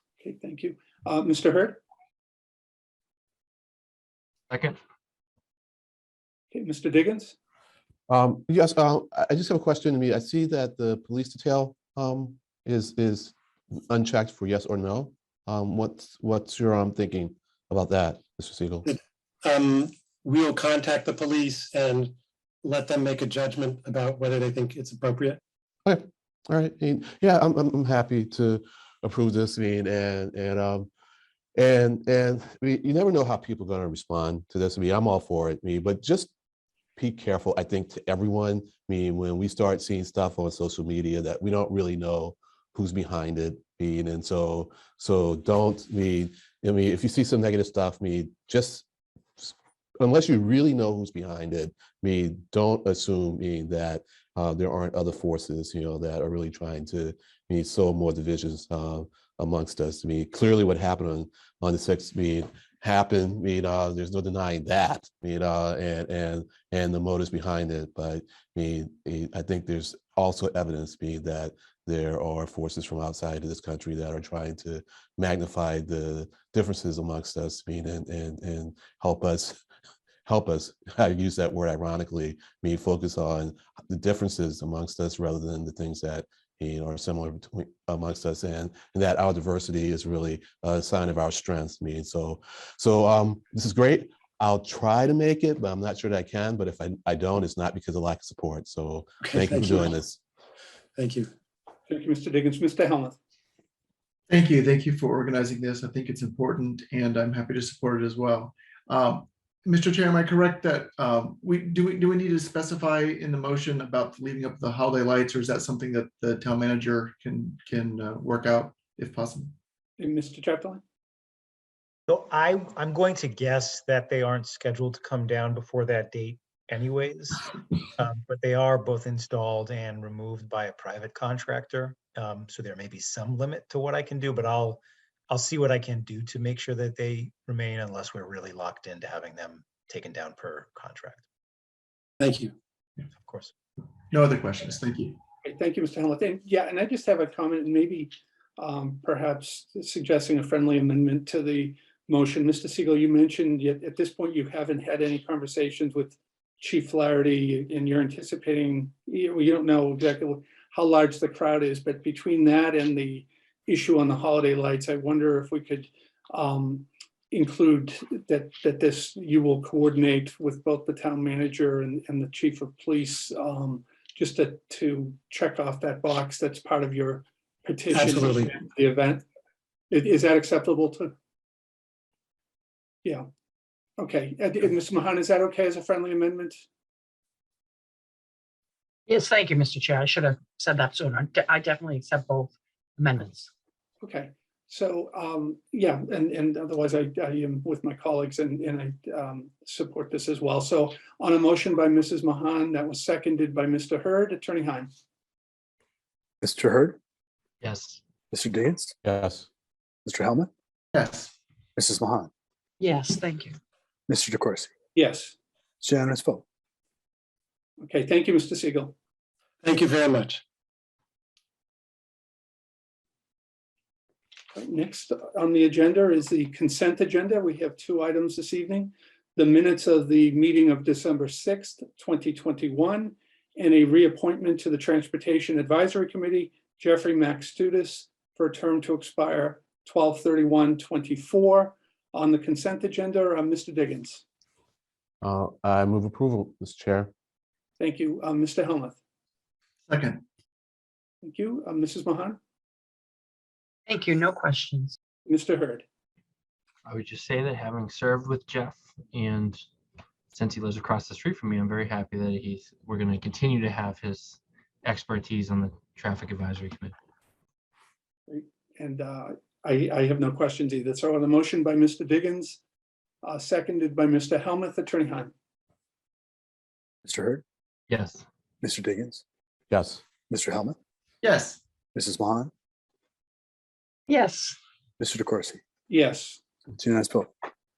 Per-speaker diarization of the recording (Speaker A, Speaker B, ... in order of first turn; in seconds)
Speaker A: 0.2-1.8, 6.5-7.3, 101.9-103.2, 120.0-120.8, 145.4-179.2, 179.9-181.1, 184.0-186.6, 194.0-204.9, 214.9-215.3, 217.8-218.9, 224.6-244.2, 247.8-249.0, 251.2-252.4, 255.3-255.8, 268.3-272.6, 273.2-275.3, 285.9-286.4
Speaker B: 4.5-4.8, 207.6-208.0, 256.9-259.6, 260.3-266.9, 277.9-278.2
Speaker C: 8.1-13.3, 13.9-18.9, 25.9-30.9, 31.6-36.3, 37.0-48.9, 49.4-79.6, 80.3-100.2, 209.0-209.5, 245.2-247.1, 279.7-280.0
Speaker D: 18.9-25.4, 99.2-99.9, 101.0-101.3, 142.2-142.5, 177.9-178.5, 219.6-220.4
Speaker E: 104.3-119.5, 144.1-145.2, 210.9-211.3, 249.9-250.2, 281.2-281.6
Speaker F: 122.1-141.2, 143.2-143.5
Speaker G: 189.1-193.5, 212.8-213.6, 253.9-255.0, 284.1-284.6
Speaker H: 206.4-207.0, 208.3-208.9, 210.1-210.5, 211.8-212.3, 214.1-214.7, 215.8-216.4, 277.0-277.4, 278.6-279.2, 280.3-280.8, 281.9-282.5, 285.0-285.6, 286.7-287.3